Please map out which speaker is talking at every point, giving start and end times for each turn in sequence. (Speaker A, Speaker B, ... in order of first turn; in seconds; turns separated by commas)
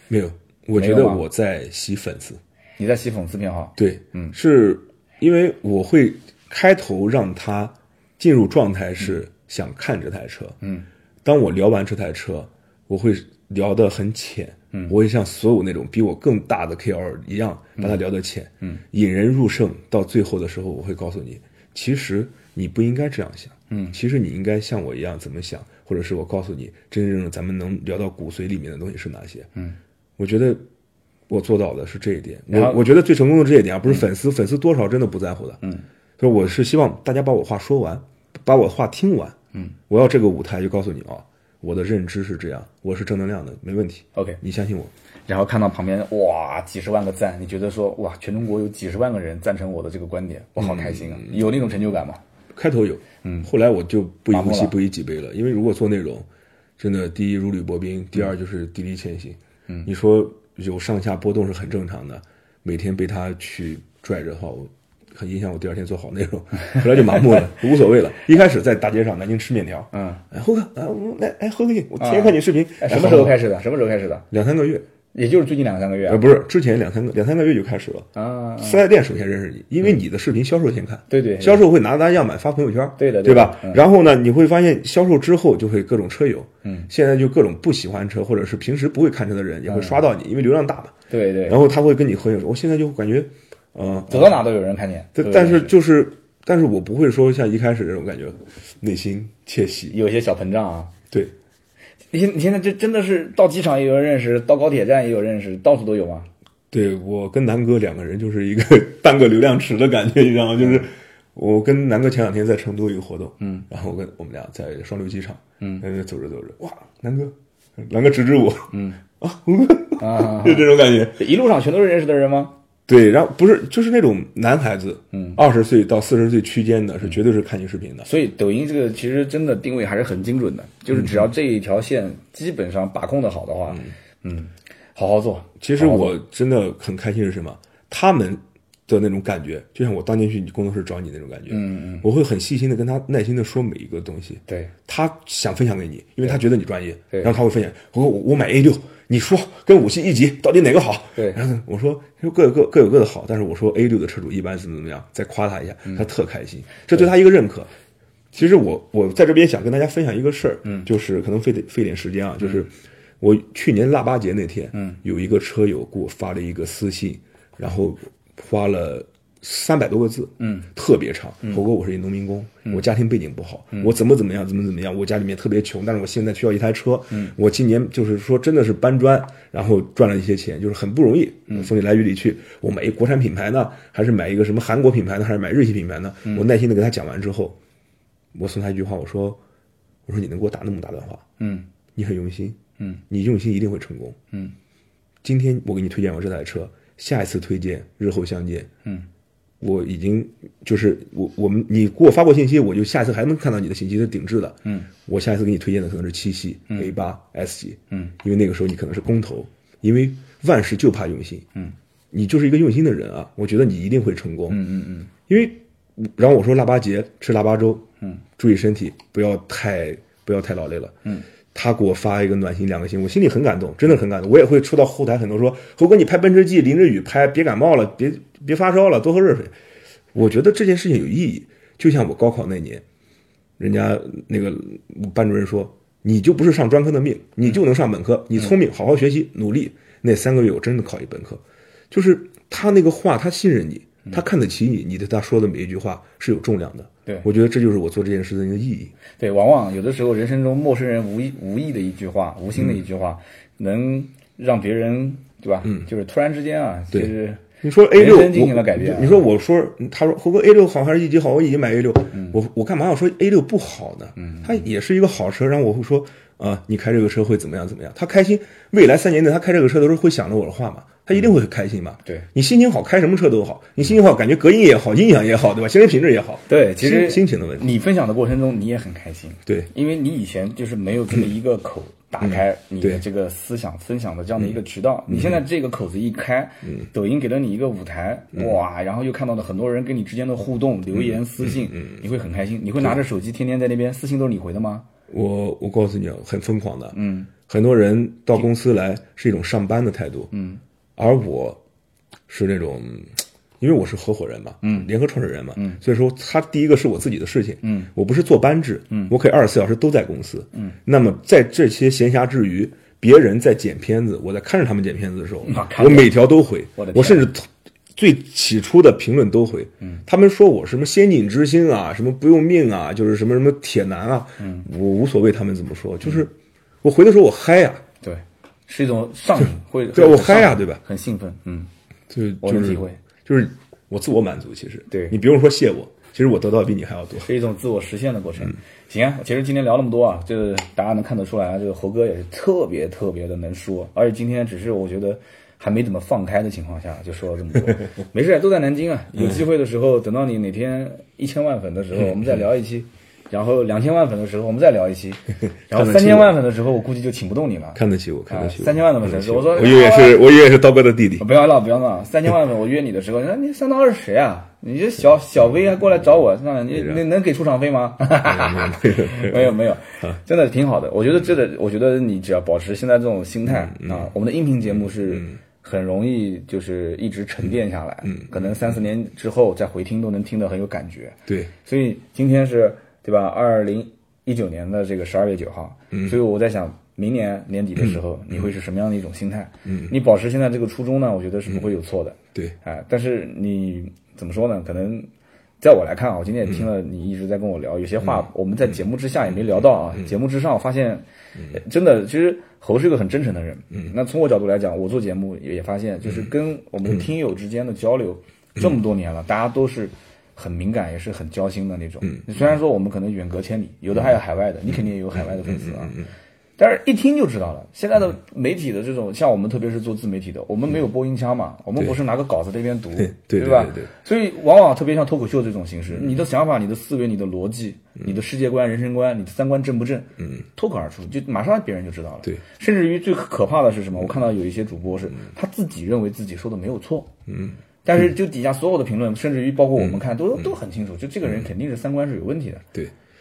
Speaker A: 0.1-2.4, Speaker B: 0.8-1.2, Speaker B: 2.8-4.3, Speaker A: 3.8-10.6, Speaker A: 11.2-29.5, Speaker B: 23.7-23.9, Speaker A: 30.2-30.6, Speaker A: 31.3-35.6, Speaker B: 32.5-32.8, Speaker A: 36.2-39.4, Speaker A: 39.9-44.9, Speaker B: 44.1-44.4, Speaker B: 45.3-52.2, Speaker A: 50.6-51.3, Speaker A: 52.5-56.3, Speaker B: 54.3-54.7, Speaker A: 56.8-73.4, Speaker B: 69.9-70.2, Speaker B: 72.0-74.3, Speaker A: 74.3-74.8, Speaker B: 75.1-76.2, Speaker A: 76.1-78.1, Speaker B: 78.1-78.8, Speaker A: 78.6-91.0, Speaker B: 81.1-81.6, Speaker B: 83.0-83.8, Speaker B: 86.6-86.9, Speaker B: 89.7-90.0, Speaker B: 91.1-91.6, Speaker A: 91.5-94.4, Speaker B: 94.1-95.7, Speaker A: 95.1-100.0, Speaker B: 99.9-100.9, Speaker B: 102.1-106.3, Speaker A: 106.7-121.2, Speaker B: 113.4-113.7, Speaker B: 118.7-119.0, Speaker B: 120.0-122.6, Speaker A: 122.9-128.1, Speaker B: 125.1-125.4, Speaker B: 128.1-136.2, Speaker A: 130.9-131.2, Speaker A: 135.6-157.7, Speaker B: 141.5-142.1, Speaker B: 144.5-144.7, Speaker A: 158.3-187.6, Speaker B: 164.7-165.0, Speaker B: 170.4-170.7, Speaker A: 188.3-189.4, Speaker A: 190.1-191.2, Speaker B: 191.4-191.7, Speaker A: 191.9-192.6, Speaker A: 193.1-194.2, Speaker A: 195.2-198.7, Speaker A: 199.6-211.4, Speaker B: 204.6-204.9, Speaker A: 212.1-214.6, Speaker B: 214.5-215.1, Speaker A: 215.3-217.9, Speaker A: 218.4-220.9, Speaker A: 221.5-229.5, Speaker A: 230.1-232.8, Speaker A: 233.6-248.9, Speaker B: 249.2-257.4, Speaker A: 257.6-277.7, Speaker B: 257.9-259.2, Speaker B: 264.2-264.6, Speaker B: 276.5-294.9, Speaker A: 282.2-283.0, Speaker A: 285.1-285.4, Speaker A: 290.9-291.9, Speaker A: 295.1-300.3, Speaker B: 296.9-297.3, Speaker B: 300.3-300.6, Speaker A: 301.0-301.6, Speaker A: 302.3-327.8, Speaker B: 304.6-304.9, Speaker B: 307.6-307.9, Speaker B: 315.4-316.1, Speaker B: 316.8-317.3, Speaker B: 324.4-324.7, Speaker B: 328.0-331.7, Speaker A: 329.9-330.8, Speaker A: 332.1-337.3, Speaker B: 332.4-333.0, Speaker B: 334.9-335.2, Speaker B: 337.2-360.2, Speaker A: 355.7-356.4, Speaker A: 357.8-361.3, Speaker B: 361.2-395.1, Speaker A: 366.8-367.0, Speaker A: 368.2-370.1, Speaker A: 373.5-374.1, Speaker A: 378.1-378.5, Speaker A: 389.6-389.9, Speaker B: 395.6-416.0, Speaker A: 415.4-416.1, Speaker B: 416.6-437.1, Speaker A: 423.0-423.9, Speaker A: 437.3-437.6, Speaker B: 437.9-442.7